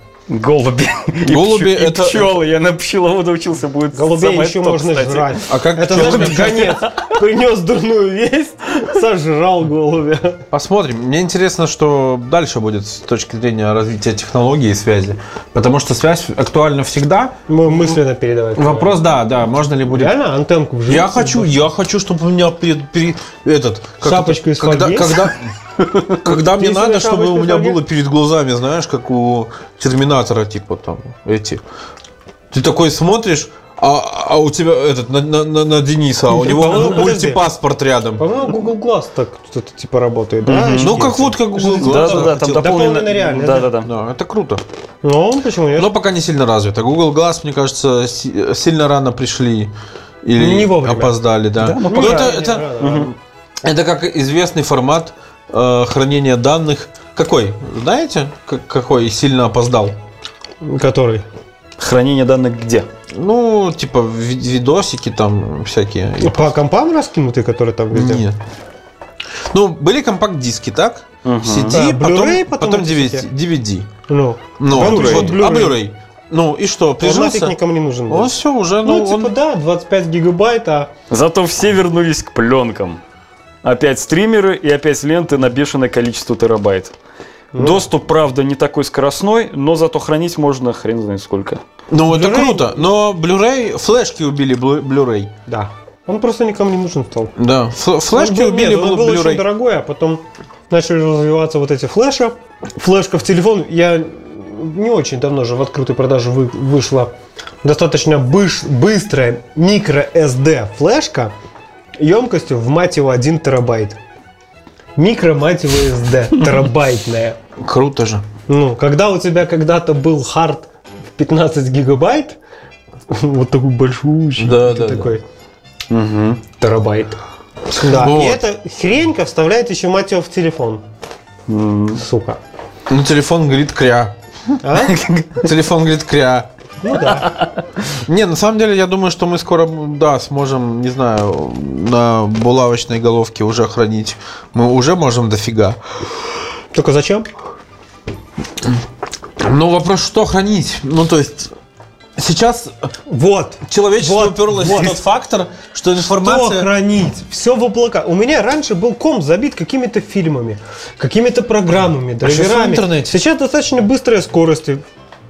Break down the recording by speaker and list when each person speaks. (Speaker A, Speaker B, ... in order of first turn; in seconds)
Speaker A: 0.3-6.8, 40.4-41.0, 41.8-43.9, 51.6-53.1, 61.8-62.9, 71.2-71.8, 74.7-75.4, 81.1-83.0, 83.6-86.9, 87.5-91.6, 125.9-126.4, 131.5-132.0, 134.8-135.5, 137.0-137.6
Speaker B: 1.2-2.4, 5.5-6.8, 10.5-18.0, 18.5-20.1, 20.9-25.5, 26.1-31.6, 32.5-38.2, 40.8-43.0, 43.8-44.6, 45.7-60.0, 63.1-66.5, 67.9-68.4, 69.5-73.9, 74.6-77.5, 78.1-79.3, 91.9-95.3, 97.3-99.4, 117.6-118.2, 124.4-125.2, 127.8-128.4, 132.9-134.1, 135.4-136.5, 138.0-145.8, 149.4-151.5, 152.2-152.9, 153.7-156.7, 162.2-163.2
Speaker C: 3.9-10.4, 17.5-18.9, 19.9-21.6, 24.0-25.3, 26.3-27.8, 36.3-37.4, 38.2-43.7, 45.0-45.9, 50.4-53.1, 60.6-61.2, 66.2-68.2, 71.7-73.3, 74.1-75.8, 77.0-80.9, 87.5-87.8, 92.1-92.8, 95.5-97.3, 98.1-111.3, 112.0-114.0, 115.0-117.4, 118.5-122.4, 123.1-125.2, 126.6-130.8, 132.0-132.4, 134.6-135.0, 136.8-137.3, 146.7-147.3, 153.1-155.0, 156.0-164.8